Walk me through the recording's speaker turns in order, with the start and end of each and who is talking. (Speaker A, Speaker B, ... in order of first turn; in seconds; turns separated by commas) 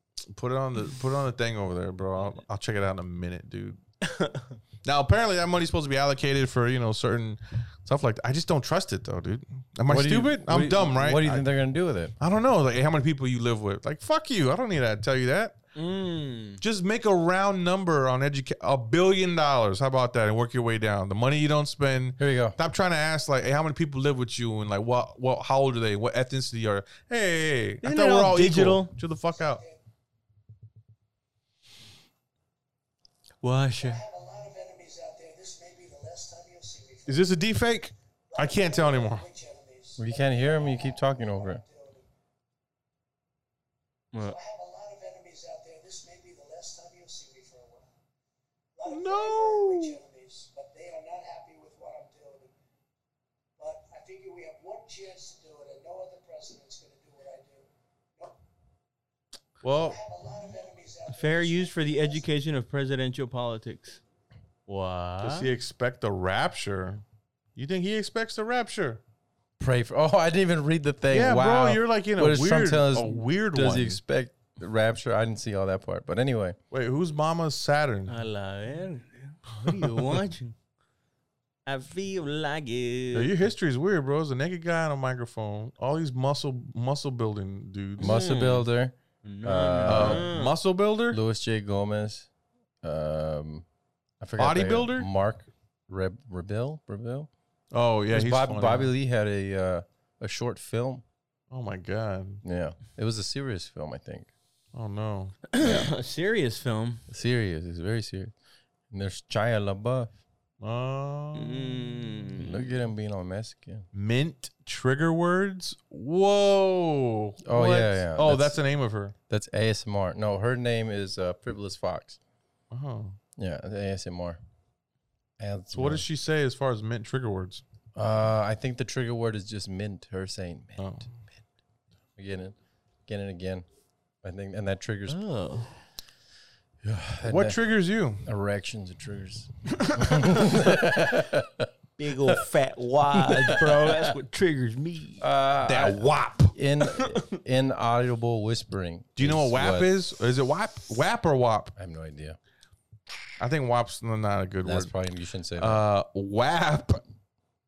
Speaker A: 0.3-3.8, Speaker B: 4.0-4.5, Speaker A: 4.8-11.4, Speaker C: 9.9-12.1, Speaker A: 12.2-15.6, Speaker B: 15.7-16.6, Speaker A: 16.6-29.6, Speaker C: 22.2-22.6, Speaker B: 27.8-28.9, Speaker D: 29.3-29.8, Speaker B: 33.4-34.0, Speaker D: 33.8-37.3, Speaker A: 37.1-39.2, Speaker D: 38.3-42.1, Speaker C: 40.0-41.6, Speaker D: 44.1-47.9, Speaker D: 48.7-52.5, Speaker A: 48.9-50.0, Speaker D: 53.6-58.4, Speaker A: 59.6-60.0, Speaker D: 59.7-62.2, Speaker B: 61.1-64.0, Speaker B: 64.7-65.5, Speaker A: 65.2-67.0, Speaker A: 67.5-69.0, Speaker C: 69.6-76.6, Speaker A: 71.1-74.0, Speaker A: 76.7-78.1, Speaker B: 78.1-80.5, Speaker A: 79.6-80.0, Speaker B: 81.7-83.3, Speaker A: 83.1-88.1, Speaker C: 88.0-90.3, Speaker B: 88.0-88.7, Speaker B: 89.2-90.5, Speaker A: 89.8-91.2, Speaker C: 91.1-92.3, Speaker C: 92.8-93.6, Speaker C: 94.2-97.3, Speaker A: 94.4-95.1, Speaker A: 97.7-98.9, Speaker C: 98.1-101.0, Speaker A: 101.5-102.4, Speaker C: 102.4-104.3, Speaker A: 104.7-105.4, Speaker B: 105.5-107.0, Speaker C: 107.1-108.3, Speaker C: 108.9-110.1, Speaker A: 110.6-111.9, Speaker B: 111.3-112.7, Speaker C: 112.3-113.8, Speaker A: 113.9-119.1, Speaker C: 117.4-118.6, Speaker C: 119.3-122.2, Speaker A: 122.7-123.2, Speaker C: 123.4-124.4, Speaker C: 125.4-126.0, Speaker A: 125.7-127.6, Speaker C: 127.9-131.1, Speaker A: 130.8-131.1, Speaker C: 132.2-132.5, Speaker C: 133.1-133.6, Speaker C: 134.2-135.2, Speaker B: 135.1-135.7, Speaker C: 136.8-137.6, Speaker A: 137.2-138.2, Speaker C: 138.2-141.7, Speaker B: 139.8-140.9, Speaker B: 142.0-145.2, Speaker C: 143.2-144.1, Speaker C: 145.2-149.9, Speaker A: 145.6-146.5, Speaker B: 146.8-147.3, Speaker A: 149.2-151.7, Speaker C: 151.8-152.4, Speaker A: 153.4-154.9, Speaker C: 154.6-155.8, Speaker A: 155.6-157.0